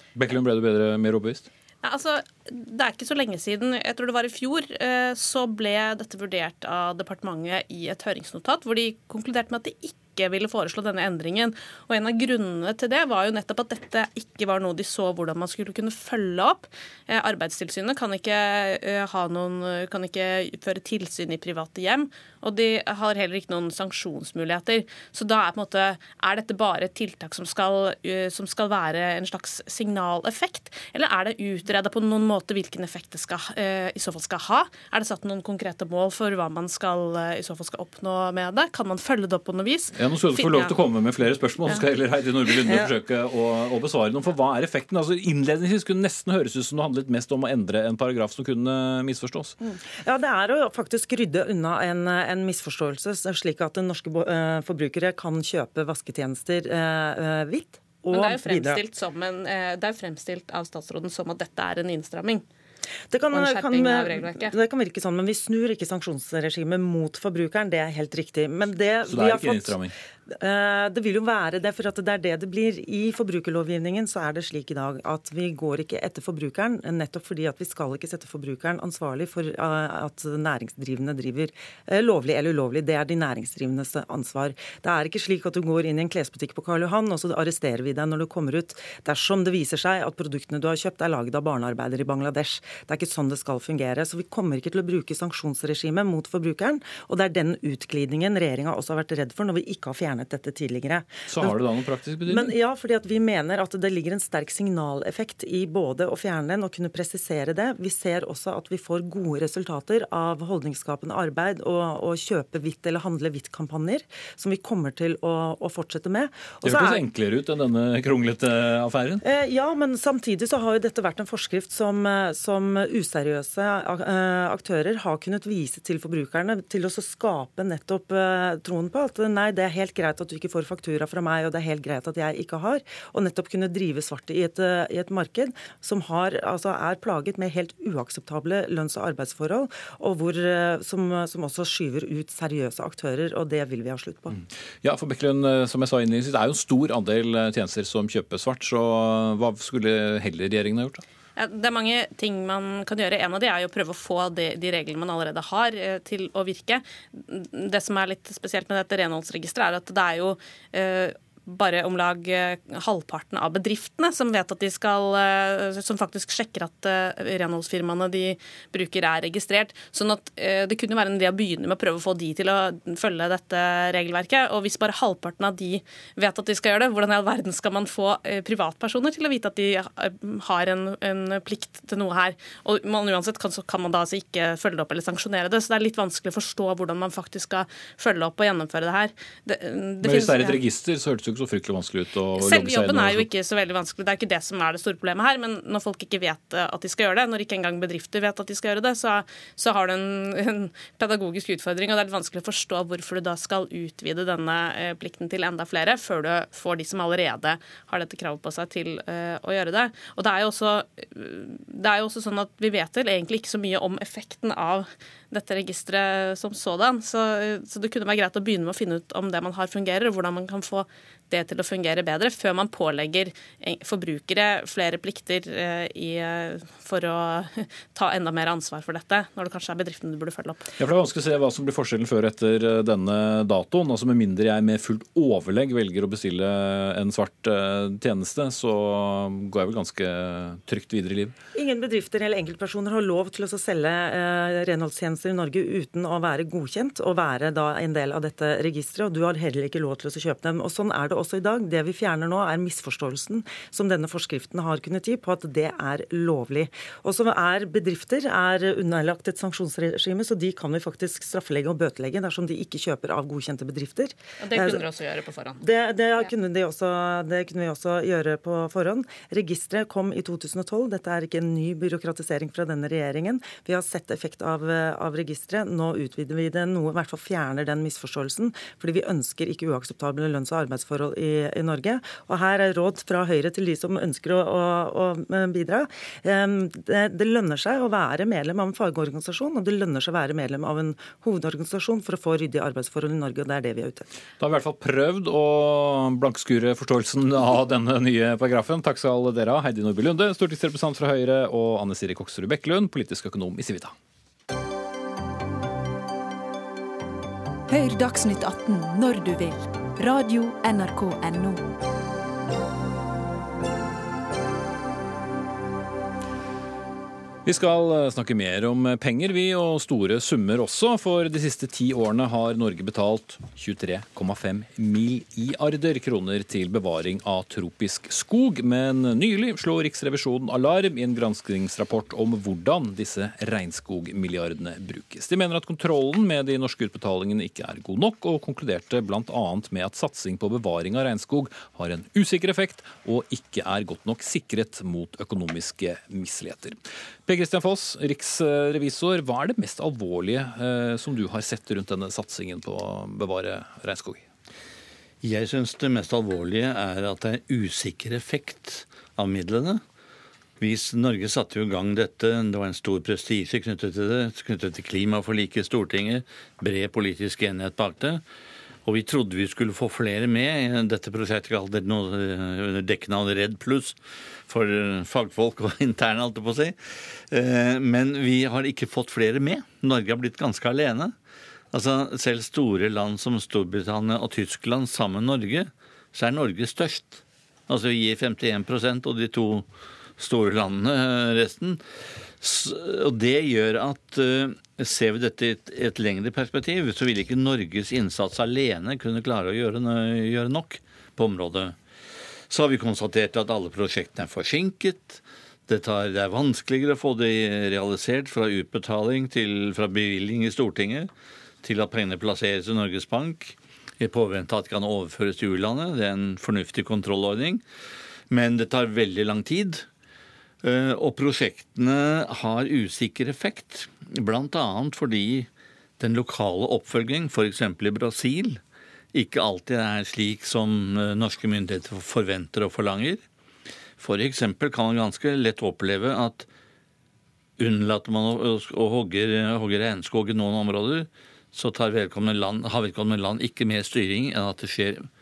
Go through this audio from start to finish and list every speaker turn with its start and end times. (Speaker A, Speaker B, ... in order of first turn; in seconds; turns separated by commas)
Speaker A: 0.2-1.5, Speaker B: 1.8-40.8, Speaker A: 40.0-49.5, Speaker C: 42.7-42.9, Speaker C: 49.7-58.8, Speaker B: 58.1-62.4, Speaker C: 63.1-101.6, Speaker B: 63.3-64.5, Speaker A: 69.1-69.9, Speaker A: 101.3-102.5, Speaker C: 102.3-117.0, Speaker A: 116.6-119.2, Speaker C: 119.2-144.4, Speaker A: 144.8-151.0, Speaker B: 151.4-190.6, Speaker A: 190.0-193.3, Speaker B: 192.4-230.7, Speaker A: 230.8-241.3, Speaker C: 241.6-264.9, Speaker B: 264.4-265.6, Speaker C: 265.6-294.1, Speaker A: 294.4-303.9, Speaker D: 307.7-311.7, Speaker A: 317.5-354.2, Speaker E: 355.2-359.8, Speaker E: 360.6-368.2, Speaker E: 368.9-381.1, Speaker E: 381.7-389.7, Speaker E: 390.2-391.8, Speaker E: 392.4-401.8, Speaker E: 402.5-411.1, Speaker E: 411.6-417.6, Speaker E: 418.3-419.9, Speaker E: 420.6-428.6, Speaker E: 429.1-433.2, Speaker E: 434.0-436.5, Speaker E: 437.6-445.1